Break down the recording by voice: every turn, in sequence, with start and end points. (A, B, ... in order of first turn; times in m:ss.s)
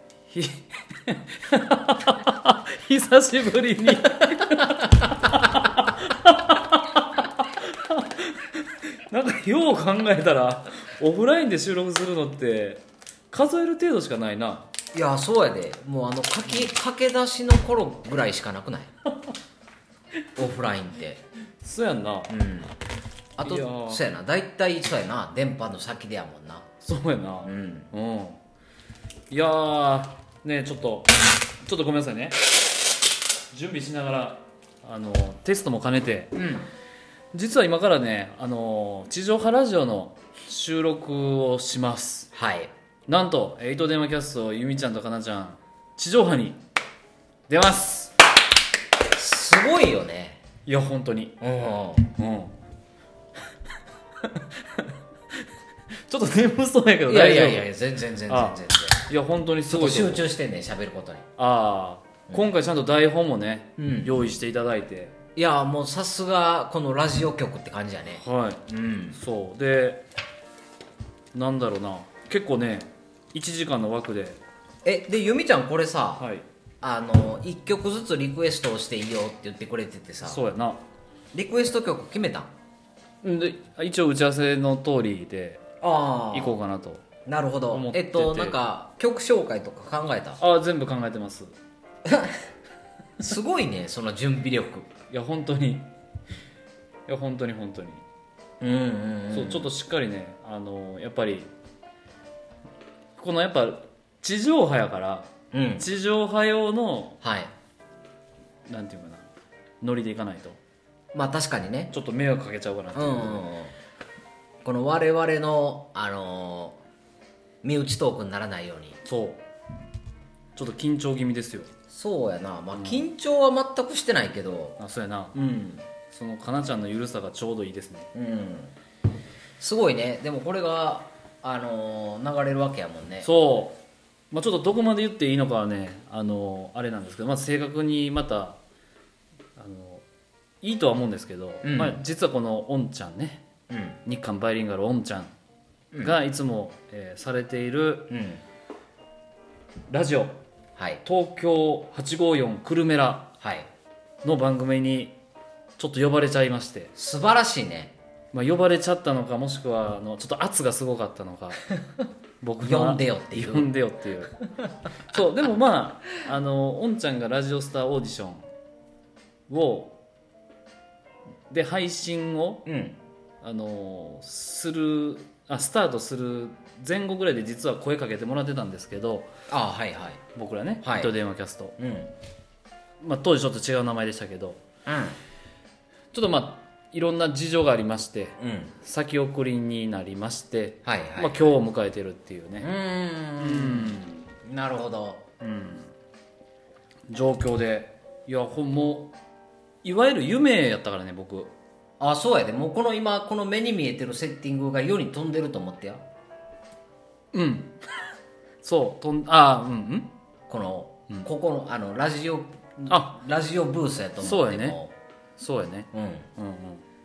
0:00.3-0:14.7 A
0:14.9-0:18.9 B
0:20.4-0:21.2 B
0:21.6-0:22.3 A
0:22.3-0:22.7 B
0:23.4-0:26.7 B
0:23.4-0:24.0 A
0:26.8-0:28.4 A
0:27.4-0:27.9 B
0:29.3-0:32.6 A
0:33.5-0:36.3 A
0:36.4-0:36.7 B
0:37.3-0:42.3 A
0:42.3-0:42.7 B
0:43.1-0:46.6 A
0:47.5-0:48.1 A
0:49.1-0:50.4 B
0:50.7-0:51.4 A
0:51.4-0:52.1 B
0:52.2-0:52.6 A
0:54.2-0:54.9 A
0:56.1-0:57.7 A
0:57.1-0:59.1 B
0:58.3-1:00.3 A
0:59.7-1:01.2 B
1:01.4-1:05.1 A
1:03.8-1:04.1 B
1:05.4-1:09.2 B
1:08.2-1:08.6 A
1:09.2-1:10.0 A
1:11.3-1:14.4 A
1:14.8-1:16.3 B
1:16.2-1:16.4 A
1:16.8-1:20.4 B
1:20.2-1:20.8 A
1:21.3-1:22.5 B
1:23.2-1:25.6 A
1:25.8-1:26.6 B
1:26.3-1:27.0 A
1:27.3-1:30.4 B
1:27.7-1:28.6 A
1:30.4-1:31.5 A
1:32.0-1:32.4 B
1:33.2-1:34.9 B
1:35.1-1:35.9 A
1:37.1-1:38.0 A
1:38.6-1:39.7 B
1:39.3-1:41.5 A
1:43.2-1:47.2 A
1:45.5-1:45.9 B
1:47.2-1:47.5 B
1:48.7-1:49.3 A
1:49.8-1:50.6 A
1:51.1-1:51.9 B
1:51.9-1:53.4 A
1:53.0-1:53.7 B
1:54.6-1:56.8 B
1:57.6-1:59.0 B
1:59.1-1:59.4 A
2:00.6-2:01.7 A
2:01.9-2:04.8 B
2:02.7-2:03.0 A
2:04.8-2:05.4 A
2:05.4-2:05.8 B
2:06.1-2:08.1 A
2:08.1-2:08.7 B
2:09.6-2:13.3 B
2:13.2-2:13.8 A
2:14.3-2:18.6 A
2:19.6-2:20.0 A
2:20.6-2:23.4 A
2:21.6-2:22.0 B
2:23.7-2:24.0 B
2:24.0-2:25.3 A
2:25.9-2:26.2 B
2:26.0-2:28.1 A
2:28.1-2:28.4 B
2:29.9-2:30.4 A
2:30.8-2:31.0 B
2:31.0-2:33.3 A
2:33.4-2:33.7 B
2:34.2-2:35.2 A
2:35.8-2:36.9 A
2:37.0-2:37.9 B
2:38.3-2:41.7 A
2:42.4-2:44.4 A
2:42.6-2:43.7 B
2:45.1-2:48.5 A
2:49.5-2:50.0 A
2:51.5-2:52.6 A
2:52.7-2:53.0 B
2:53.4-2:59.3 A
2:59.5-3:00.2 B
3:00.4-3:01.8 A
3:00.8-3:01.1 B
3:01.8-3:02.1 B
3:03.0-3:04.6 A
3:04.9-3:05.2 B
3:06.1-3:12.7 A
3:08.4-3:08.8 B
3:10.8-3:11.6 B
3:12.6-3:15.2 B
3:13.4-3:14.3 A
3:15.4-3:15.9 A
3:17.1-3:19.1 A
3:19.8-3:21.5 A
3:22.0-3:26.0 B
3:27.3-3:27.8 A
3:28.6-3:30.1 A
3:30.5-3:34.9 B
3:32.9-3:33.2 A
3:34.2-3:34.8 A
3:35.4-3:36.8 A
3:35.9-3:36.3 B